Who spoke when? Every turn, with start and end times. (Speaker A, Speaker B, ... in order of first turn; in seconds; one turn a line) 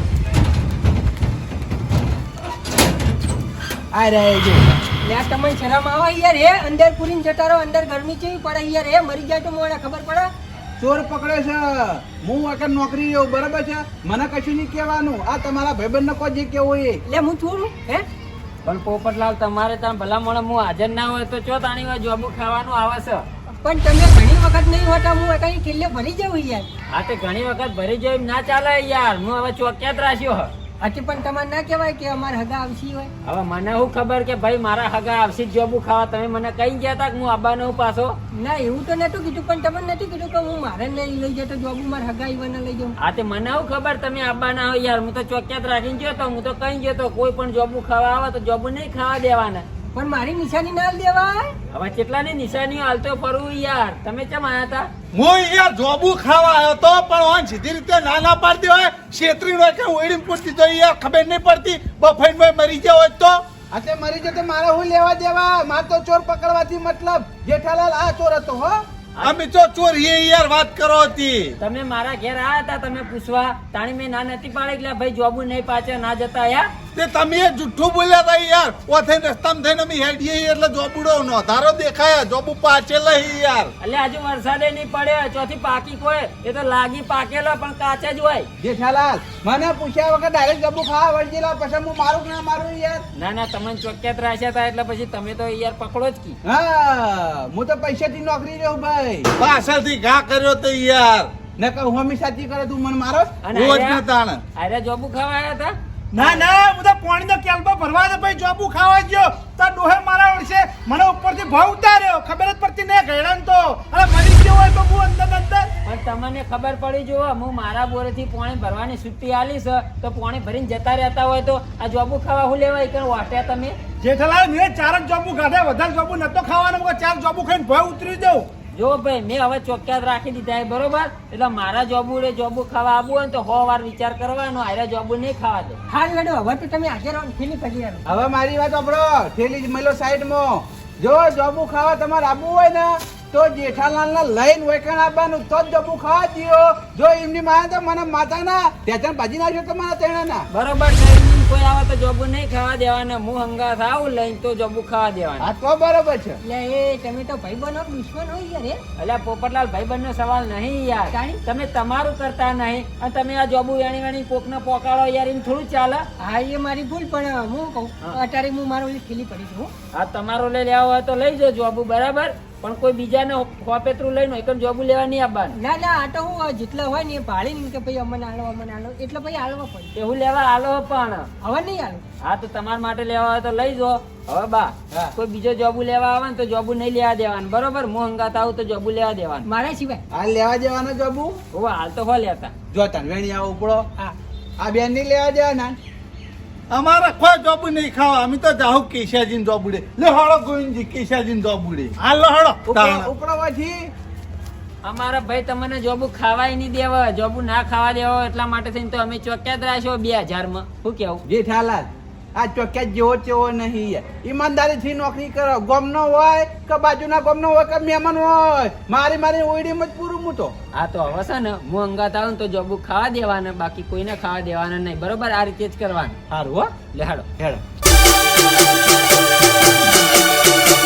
Speaker A: 3.9-4.8
Speaker B: 5.0-10.3
Speaker A: 10.8-17.0
Speaker B: 17.1-18.1
Speaker C: 18.6-23.2
Speaker B: 23.6-26.7
Speaker C: 26.9-30.5
Speaker B: 30.8-33.1
Speaker C: 33.2-38.1
Speaker B: 38.3-43.0
Speaker C: 43.0-49.6
Speaker B: 49.9-51.5
Speaker C: 51.7-54.9
Speaker D: 55.1-63.4
Speaker A: 63.7-68.8
Speaker D: 69.2-71.5
Speaker C: 71.6-76.7
Speaker D: 76.9-83.7
Speaker C: 83.8-88.5
Speaker A: 88.6-93.0
Speaker C: 93.2-96.4
Speaker A: 96.4-99.3
Speaker D: 99.4-101.3
Speaker A: 101.6-103.4
Speaker C: 103.4-104.0
Speaker D: 103.5-104.4
Speaker C: 104.5-105.7
Speaker E: 106.1-115.7
Speaker C: 115.8-123.8
Speaker E: 124.0-128.5
Speaker C: 128.7-135.8
Speaker B: 135.9-138.0
Speaker A: 138.1-150.5
Speaker C: 150.5-155.5
Speaker A: 155.4-156.4
Speaker B: 156.4-158.8
Speaker C: 159.0-166.1
Speaker B: 161.1-161.4
Speaker B: 166.2-169.7
Speaker C: 169.9-175.6
Speaker B: 175.6-179.9
Speaker C: 179.9-181.3
Speaker B: 181.4-182.0
Speaker C: 182.2-189.5
Speaker B: 189.4-190.0
Speaker A: 190.1-191.4
Speaker C: 191.5-192.5
Speaker A: 192.7-193.8
Speaker A: 194.6-195.8
Speaker D: 196.7-203.1
Speaker E: 202.1-202.4
Speaker A: 202.7-203.9
Speaker C: 204.8-211.2
Speaker A: 211.2-220.5
Speaker C: 220.7-226.2
Speaker A: 226.3-226.7
Speaker C: 226.9-227.3
Speaker A: 227.4-227.6